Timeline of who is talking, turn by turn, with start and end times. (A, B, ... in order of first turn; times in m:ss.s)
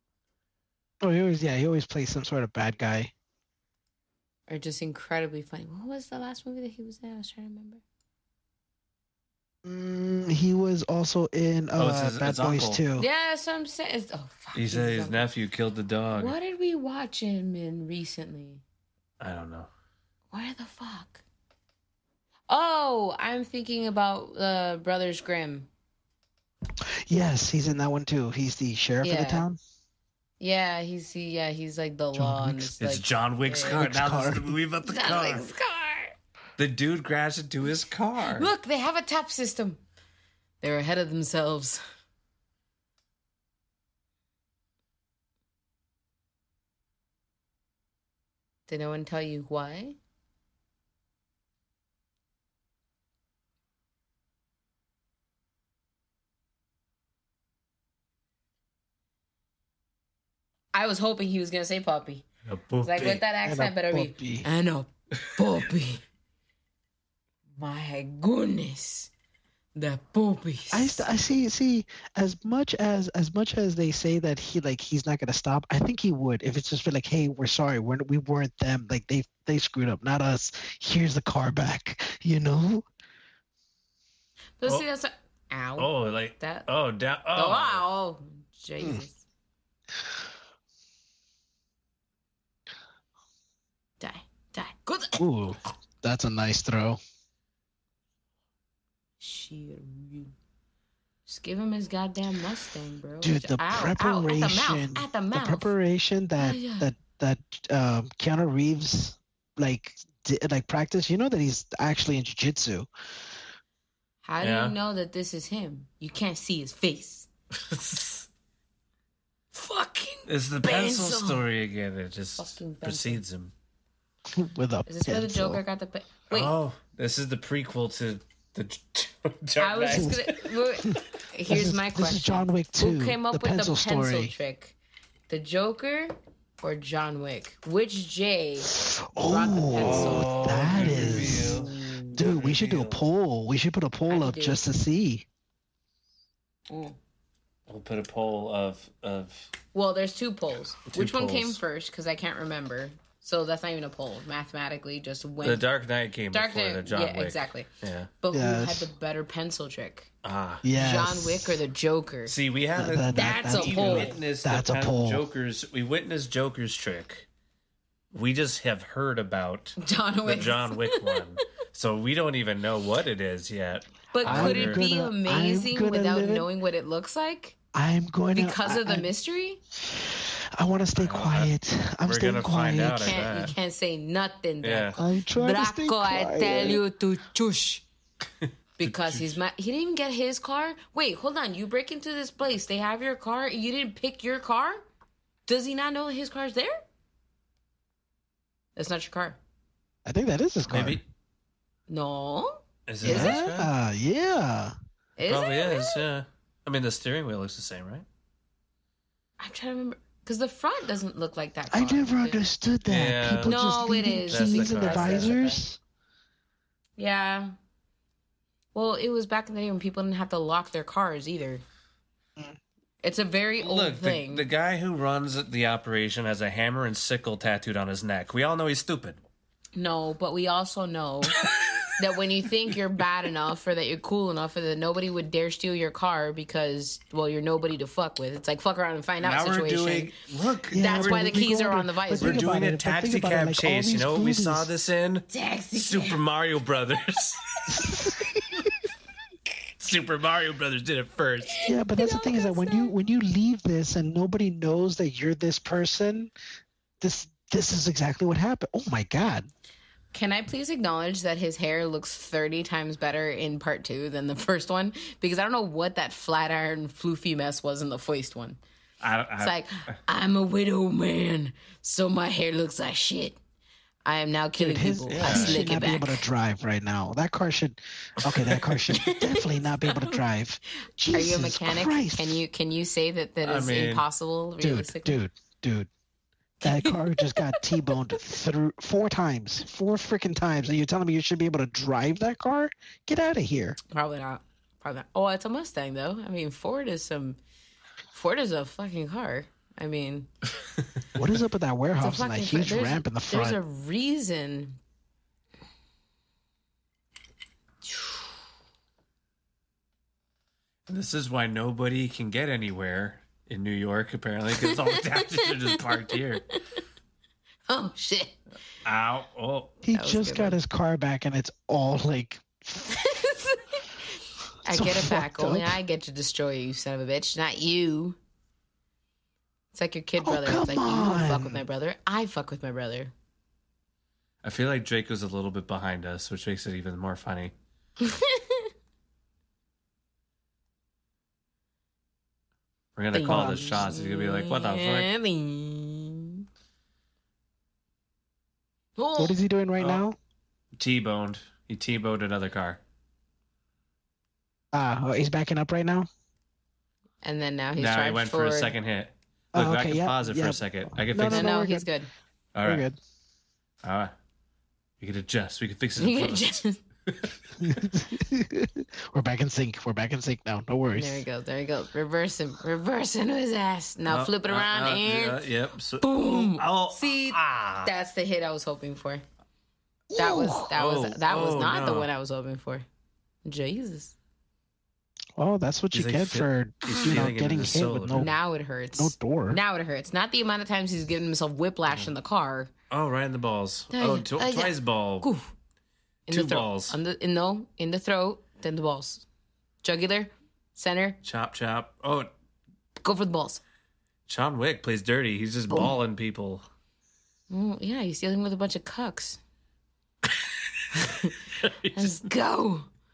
0:01.0-0:03.1 A
0:04.5-0:07.8 B
0:09.6-0:13.0 A
0:11.8-0:12.8 C
0:13.0-0:15.3 B
0:14.5-0:16.3 C
0:16.2-0:18.6 B
0:19.2-0:19.7 C
0:20.3-0:21.2 B
0:22.5-0:25.7 B
0:27.1-0:29.6 A
0:29.0-0:29.4 B
0:30.4-0:33.8 B
0:32.1-0:32.7 A
0:32.8-0:35.4 C
0:33.8-0:34.6 A
0:34.8-0:36.1 B
0:36.6-0:38.5 C
0:38.2-0:39.8 B
0:40.6-0:41.8 B
0:48.7-0:50.0 B
1:00.7-1:02.3 B
1:02.5-1:03.2 C
1:02.8-1:06.0 B
1:03.4-1:04.5 A
1:07.6-1:09.1 B
1:09.8-1:11.1 B
1:10.7-1:22.8 A
1:24.6-1:26.7 B
1:25.8-1:27.8 C
1:27.3-1:29.2 B
1:34.0-1:35.2 B
1:35.2-1:37.0 A
1:39.2-1:40.3 B
1:41.2-1:45.7 B
1:43.2-1:52.9 A
1:46.4-1:46.9 B
1:54.2-1:57.3 B
1:54.4-1:54.8 C
1:57.6-1:58.2 C
1:59.5-2:01.4 B
2:00.2-2:03.5 C
2:02.4-2:03.2 B
2:04.3-2:05.6 A
2:04.8-2:06.6 B
2:06.3-2:10.6 C
2:09.6-2:14.8 B
2:09.9-2:10.2 A
2:10.9-2:14.3 A
2:15.3-2:18.7 B
2:18.7-2:25.2 A
2:19.2-2:22.2 B
2:19.8-2:23.0 C
2:24.1-2:24.6 B
2:26.7-2:27.0 B
2:27.7-2:29.5 C
2:29.7-2:35.6 B
2:30.9-2:31.6 C
2:35.4-2:38.1 C
2:36.3-2:37.7 B
2:38.2-2:40.1 B
2:38.3-2:38.9 A
2:40.2-2:40.6 C
2:40.6-2:41.6 A
2:40.7-2:42.3 B
2:42.2-2:47.3 C
2:42.8-2:45.2 A
2:43.1-2:44.2 B
2:48.1-2:54.8 C
2:49.8-2:51.4 B
2:54.1-2:57.6 B
2:54.2-2:56.5 A
2:57.7-2:59.1 A
2:58.3-2:59.6 B
2:59.8-3:03.3 A
3:01.0-3:01.5 C
3:02.0-3:03.5 C
3:03.0-3:07.8 B
3:04.6-3:05.0 C
3:05.0-3:06.8 A
3:08.4-3:09.4 C
3:08.8-3:14.8 B
3:15.5-3:16.8 B
3:18.8-3:19.4 B
3:20.0-3:21.0 A
3:20.7-3:21.0 C
3:21.9-3:23.4 B
3:22.9-3:23.7 C
3:23.0-3:24.7 A
3:25.2-3:26.0 B
3:25.3-3:28.0 C
3:29.4-3:32.4 B
3:31.7-3:35.8 A
3:32.9-3:35.3 C
3:33.4-3:35.6 B
3:37.0-3:37.5 B
3:38.7-3:41.6 B
3:43.0-3:44.4 B
3:43.6-3:49.2 C
3:49.8-3:51.4 B
3:51.4-3:51.9 C
3:52.0-4:00.1 B
3:59.2-4:01.5 C
4:00.7-4:04.7 A
4:00.8-4:02.5 B
4:02.2-4:07.6 C
4:05.3-4:06.2 B
4:07.7-4:08.6 A
4:09.8-4:11.6 C
4:11.5-4:12.9 B
4:11.6-4:16.3 A
4:17.0-4:19.5 A
4:20.1-4:28.6 B
4:29.0-4:29.9 C
4:29.4-4:33.4 B
4:34.0-4:36.2 B
4:34.6-4:42.4 A
4:35.1-4:35.8 C
4:38.5-4:38.7 C
4:38.9-4:40.2 B
4:41.1-4:45.2 B
4:43.4-4:44.0 C
4:44.6-4:45.9 A
4:46.6-4:47.8 B
4:46.6-4:53.8 A
4:53.9-4:57.4 B
4:58.1-5:00.3 B
5:01.1-5:03.6 A
5:02.0-5:04.8 B
5:10.9-5:16.5 C
5:14.6-5:16.2 B
5:17.7-5:18.4 B
5:18.8-5:19.8 C
5:19.8-5:22.9 A
5:19.9-5:20.6 B
5:22.9-5:23.8 B
5:24.6-5:28.2 B
5:24.7-5:25.8 A
5:29.7-5:33.1 B
5:30.2-5:31.6 A
5:34.4-5:37.5 C
5:38.0-5:38.7 B
5:43.0-5:45.1 C
5:43.1-5:46.4 B
5:43.2-5:43.8 A
5:49.0-5:49.4 B
5:49.2-5:50.2 A
5:50.8-5:52.8 C
5:54.7-5:56.1 A
5:57.2-5:58.7 B
5:57.8-6:01.5 C
5:59.5-6:01.9 A
6:01.2-6:02.1 B
6:02.5-6:02.8 C
6:02.6-6:03.0 A
6:03.8-6:04.1 C
6:05.0-6:06.5 C
6:06.0-6:06.8 B
6:07.0-6:07.4 C
6:07.6-6:11.2 A
6:10.9-6:15.4 B
6:14.1-6:17.9 C
6:16.0-6:19.2 B
6:20.1-6:20.7 A
6:20.2-6:22.8 B
6:20.7-6:22.1 C
6:23.4-6:24.1 B
6:25.4-6:28.3 A
6:25.9-6:28.3 C
6:26.8-6:27.2 B
6:28.1-6:32.7 B
6:29.0-6:29.6 A
6:32.9-6:35.3 C
6:33.9-6:35.5 B
6:36.3-6:39.2 B
6:36.3-6:37.0 C
6:39.8-6:41.2 B
6:41.2-6:42.3 C
6:43.0-6:43.6 B
6:44.3-6:46.6 C
6:47.5-6:49.4 B
6:50.9-6:51.4 B
6:51.1-6:52.1 C
6:51.9-6:52.9 B